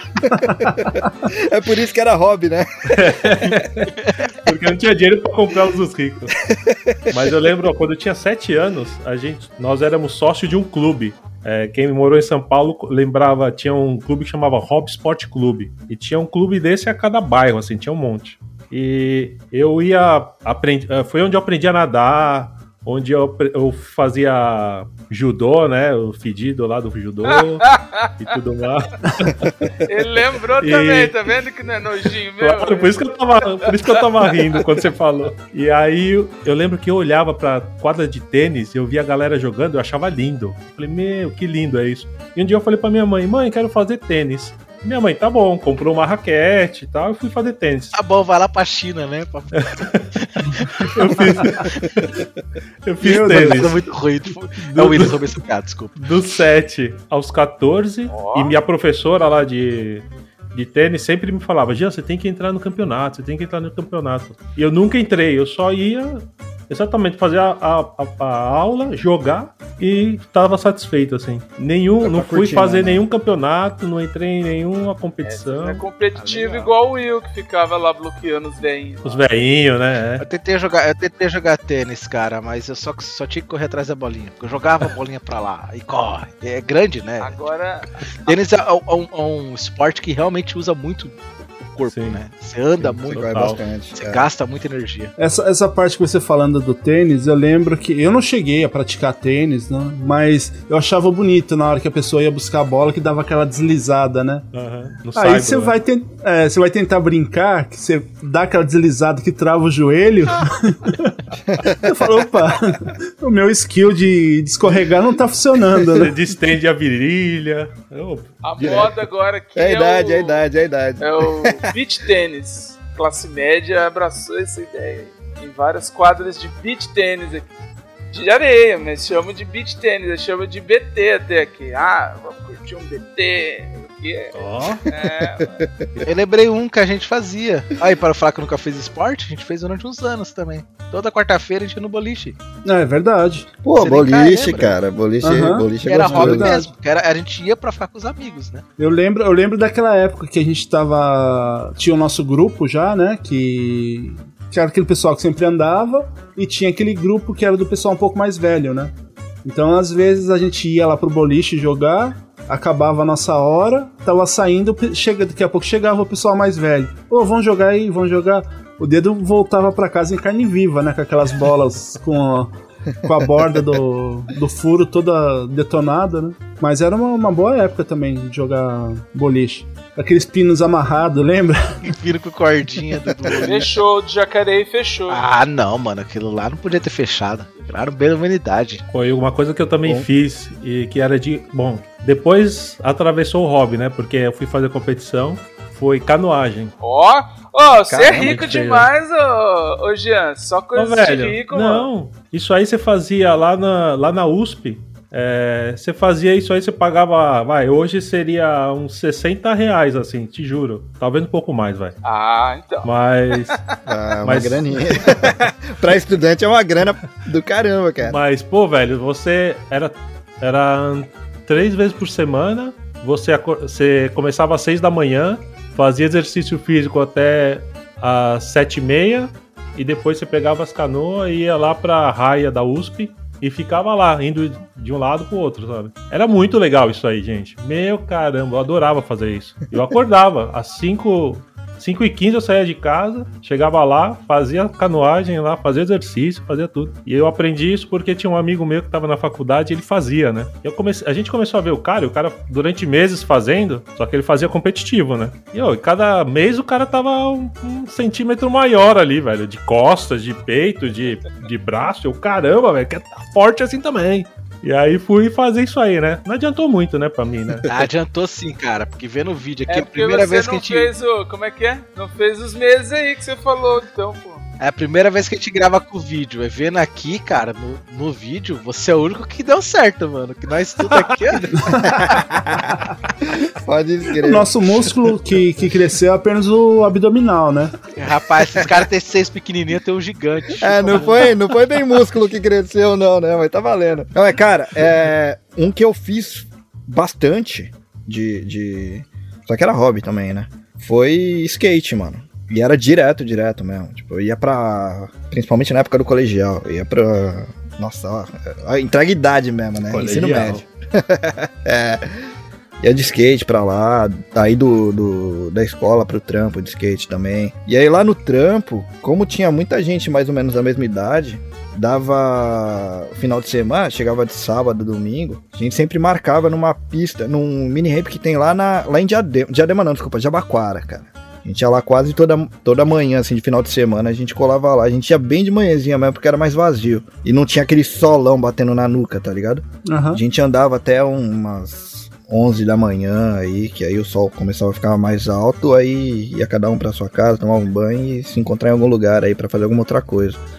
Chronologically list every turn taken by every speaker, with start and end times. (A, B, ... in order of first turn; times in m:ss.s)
0:00.2-0:03.5 A
0:02.9-0:06.4 B
0:06.5-0:07.2 A
0:07.1-0:27.7 B
0:27.2-0:28.1 C
0:28.2-0:29.5 B
0:29.8-0:33.1 C
0:30.6-0:31.1 B
0:32.4-0:47.9 B
0:33.6-0:34.0 C
0:47.9-0:51.9 D
0:49.8-0:50.0 B
0:50.9-0:52.2 B
0:52.8-0:53.8 B
0:53.0-0:53.7 E
0:53.0-0:56.0 D
0:54.6-0:55.2 B
0:56.0-1:15.8 B
0:58.1-0:58.6 C
1:12.0-1:13.0 A
1:15.2-1:19.2 C
1:16.1-1:16.7 D
1:19.0-1:20.2 B
1:20.2-1:27.3 D
1:27.2-1:27.8 C
1:28.2-1:33.0 D
1:31.9-1:32.2 B
1:32.8-1:34.3 A
1:33.0-1:33.6 B
1:33.9-1:35.1 D
1:35.2-1:44.5 E
1:44.5-1:45.8 B
1:45.1-1:51.1 E
1:51.4-1:52.2 A
1:51.8-1:56.2 E
1:55.9-1:58.9 B
1:58.4-2:00.4 C
1:58.6-1:58.9 A
1:59.6-2:01.7 A
2:01.0-2:07.5 C
2:08.1-2:15.6 C
2:14.3-2:14.8 B
2:14.9-2:16.0 A
2:16.0-2:22.4 D
2:22.6-2:23.5 E
2:23.6-2:26.6 A
2:23.7-2:24.8 D
2:25.2-2:26.7 E
2:25.8-2:28.6 D
2:28.8-2:38.9 E
2:39.4-2:52.5 E
2:53.0-3:01.8 E
2:53.1-2:53.7 A
3:01.8-3:03.7 D
3:03.3-3:05.2 C
3:05.1-3:08.8 D
3:08.9-3:16.7 B
3:16.8-3:21.9 C
3:17.9-3:18.5 A
3:18.1-3:18.9 B
3:20.7-3:32.0 B
3:32.0-3:32.9 C
3:32.8-3:33.6 B
3:33.8-3:38.2 A
3:34.2-3:35.3 B
3:38.0-4:27.7 B
4:27.7-4:30.9 D
4:29.7-4:34.4 C
4:34.6-4:41.5 D
4:40.9-4:41.2 B
4:41.5-4:41.9 E
4:41.9-4:44.9 A
4:44.2-4:47.7 E
4:47.9-4:51.4 D
4:50.6-5:12.3 A
5:09.8-5:10.6 B
5:12.8-5:50.4 A
5:39.8-5:40.2 E